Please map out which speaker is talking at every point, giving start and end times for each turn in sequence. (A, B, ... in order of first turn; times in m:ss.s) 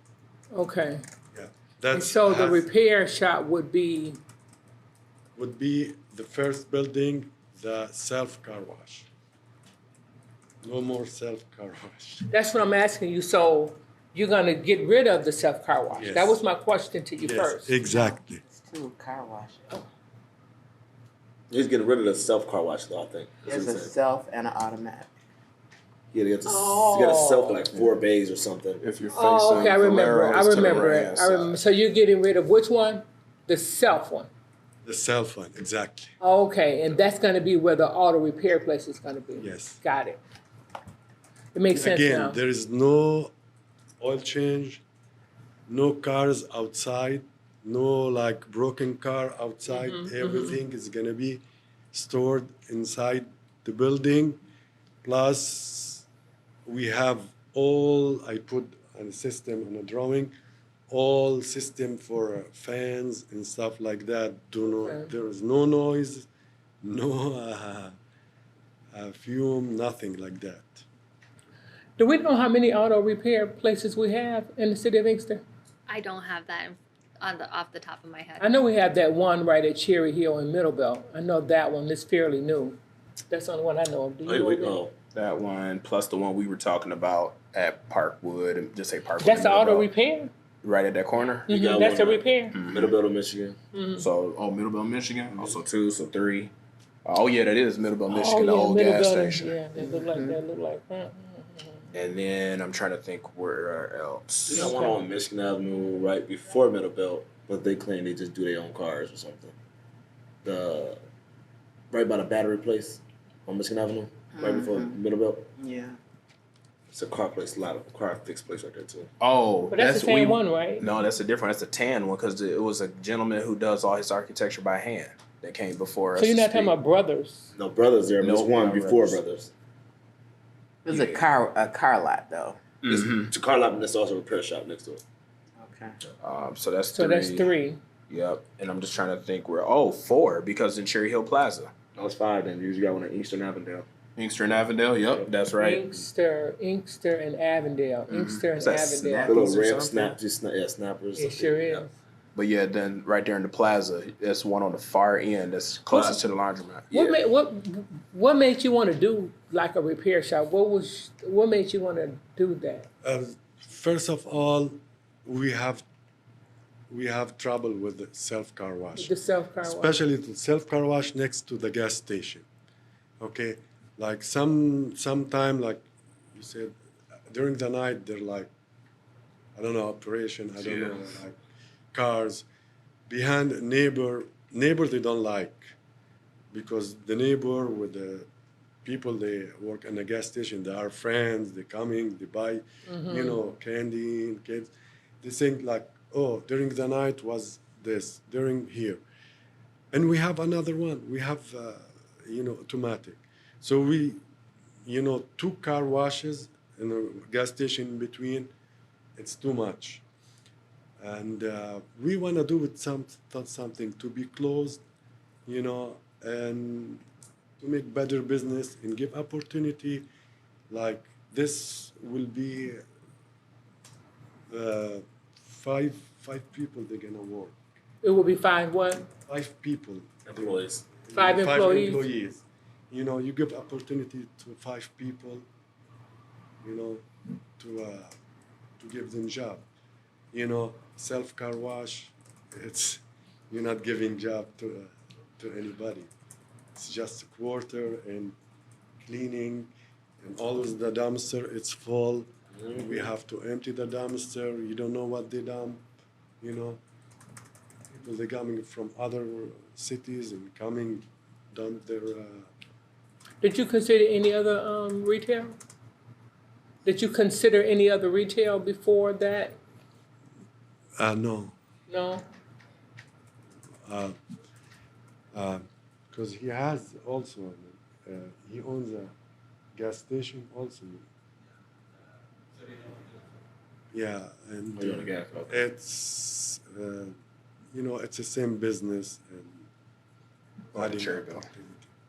0:00.5-0:01.0 A
0:01.3-0:02.7 B
0:01.9-0:04.2 A
0:05.3-0:09.1 B
0:10.6-0:12.3 B
0:12.3-0:17.7 A
0:15.9-0:16.4 B
0:17.2-0:18.4 B
0:17.9-0:19.8 C
0:21.5-0:23.9 D
0:23.4-0:25.1 C
0:26.1-0:28.8 D
0:26.4-0:27.6 A
0:28.8-0:31.6 E
0:29.1-0:34.3 A
0:34.8-0:36.1 B
0:36.2-0:40.2 A
0:39.4-0:39.8 B
0:41.5-0:42.4 A
0:41.7-0:43.3 B
0:44.0-0:44.8 B
0:45.7-0:54.4 B
0:49.7-0:50.6 A
0:55.0-0:56.0 B
0:56.6-1:00.3 B
1:00.9-1:06.3 B
1:04.7-1:05.1 A
1:06.8-1:07.9 B
1:08.9-1:10.8 B
1:12.0-1:15.4 A
1:15.9-1:18.6 F
1:18.4-1:22.8 A
1:23.3-1:24.8 A
1:24.2-1:24.9 D
1:25.1-1:29.9 E
1:29.2-1:30.3 A
1:30.6-1:31.5 E
1:31.5-1:32.6 A
1:31.5-1:33.6 D
1:32.5-1:33.0 E
1:33.7-1:34.1 A
1:34.0-1:36.5 E
1:35.3-1:35.6 D
1:37.0-1:39.6 E
1:38.0-1:41.9 A
1:39.8-1:40.4 C
1:41.9-1:44.7 E
1:44.5-1:49.5 D
1:44.6-1:44.9 A
1:50.4-1:51.0 D
1:51.9-1:55.5 D
1:54.3-1:55.0 C
1:55.6-1:56.0 C
1:56.9-1:59.1 D
1:59.2-2:06.7 E
1:59.7-2:00.9 A
2:06.1-2:07.5 A
2:07.5-2:09.5 D
2:08.2-2:09.2 E
2:10.8-2:12.6 C
2:10.9-2:11.2 E
2:12.8-2:13.3 E
2:12.9-2:15.0 D
2:15.6-2:16.0 C
2:16.2-2:17.5 E
2:16.9-2:17.8 A
2:18.1-2:21.7 E
2:22.0-2:23.9 D
2:24.2-2:25.9 E
2:25.6-2:29.4 A
2:28.1-2:30.1 E
2:29.2-2:30.1 C
2:29.2-2:31.9 D
2:31.1-2:31.9 A
2:32.3-2:36.9 E
2:35.9-2:36.2 D
2:36.9-2:42.9 A
2:36.9-2:37.2 D
2:43.0-2:45.8 B
2:46.9-2:52.5 B
2:49.0-2:49.9 A
2:53.2-2:56.7 B
2:57.3-2:58.5 B
2:59.6-3:01.4 B
3:00.6-3:01.0 E
3:01.9-3:02.4 B
3:03.1-3:05.7 B
3:06.5-3:08.3 B
3:08.8-3:14.7 B
3:12.9-3:13.4 A
3:15.2-3:19.0 B
3:19.9-3:24.2 B
3:24.8-3:28.5 B
3:29.2-3:30.0 B
3:31.0-3:34.8 B
3:35.4-3:37.0 B
3:37.6-3:40.0 B
3:40.7-3:42.8 B
3:44.5-3:47.6 B
3:48.0-3:49.1 A
3:49.2-3:55.4 B
3:50.2-3:50.8 D
3:51.1-3:52.0 A
3:56.6-3:57.0 B
3:57.6-3:58.1 B
3:58.8-3:59.6 B
4:00.3-4:06.1 B
4:06.7-4:08.3 B
4:09.0-4:15.8 B
4:12.6-4:13.0 D
4:16.4-4:16.8 B
4:17.9-4:22.5 B
4:23.4-4:25.5 A
4:26.8-4:29.6 A
4:31.0-4:31.5 B
4:31.9-4:32.2 A
4:33.8-4:34.2 B
4:35.3-4:39.1 B
4:39.7-4:41.0 B
4:43.9-4:47.2 B
4:44.8-4:45.5 D
4:47.7-4:49.7 B
4:50.7-4:51.9 B
4:50.7-4:51.4 E